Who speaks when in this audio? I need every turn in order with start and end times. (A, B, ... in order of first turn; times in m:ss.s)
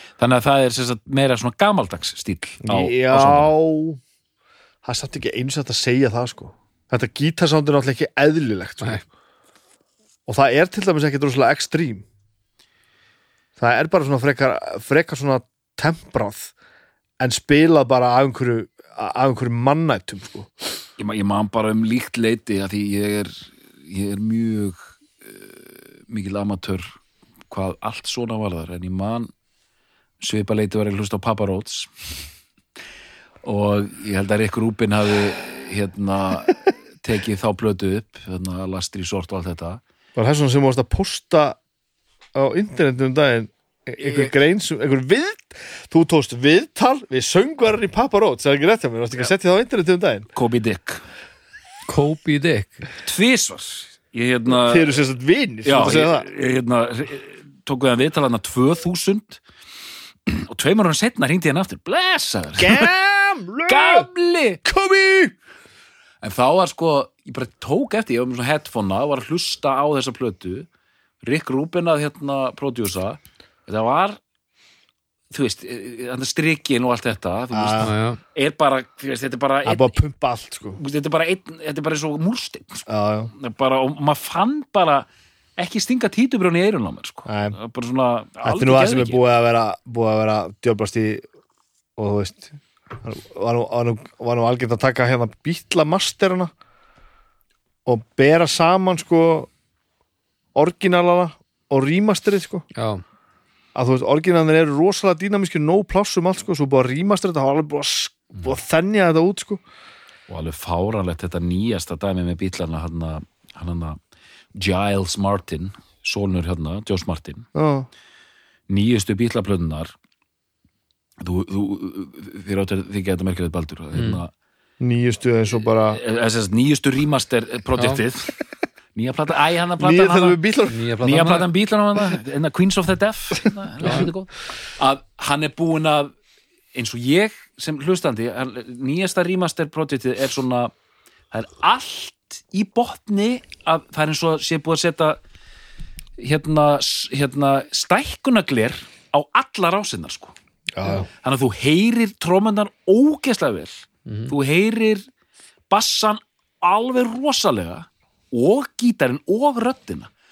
0:00.2-0:03.5 A
0:02.6-0:04.0 B
0:04.8-0:09.0 B
0:10.3-0:12.0 B
0:13.6-0:16.5 B
0:17.2-0:20.5 B
0:21.0-0:26.9 A
0:27.5-0:29.3 A
0:30.2-0:31.9 A
0:33.4-0:39.8 A
0:40.2-0:41.6 B
0:42.4-0:50.3 B
0:44.0-0:44.3 A
0:50.4-0:51.0 A
0:51.9-0:52.9 C
0:53.0-0:55.0 A
0:54.5-0:56.3 B
0:55.6-0:59.4 A
1:00.3-1:02.9 A
1:02.6-1:04.1 B
1:03.7-1:04.6 A
1:04.6-1:05.4 B
1:06.2-1:10.7 A
1:11.2-1:14.2 A
1:15.3-1:20.0 A
1:17.5-1:17.9 B
1:17.8-1:18.2 C
1:19.6-1:20.8 B
1:20.8-1:25.1 A
1:22.9-1:23.3 B
1:25.6-1:29.2 A
1:27.3-1:27.6 B
1:28.4-1:31.3 B
1:32.0-1:36.5 B
1:37.9-1:39.5 B
1:40.6-1:42.6 B
1:42.8-1:43.0 C
1:43.8-1:49.6 B
1:50.3-1:54.0 A
1:54.6-1:57.5 A
1:57.6-1:57.9 B
1:58.7-1:59.9 A
2:01.2-2:04.3 A
2:03.9-2:04.2 C
2:04.8-2:06.0 B
2:05.8-2:08.4 A
2:07.8-2:08.0 C
2:09.0-2:10.4 A
2:09.8-2:10.9 B
2:10.7-2:11.5 C
2:11.0-2:16.1 A
2:13.8-2:14.1 C
2:16.7-2:20.7 A
2:21.3-2:25.2 A
2:26.2-2:30.3 A
2:30.8-2:31.1 B
2:31.1-2:35.0 A
2:34.1-2:34.3 C
2:35.7-2:40.1 A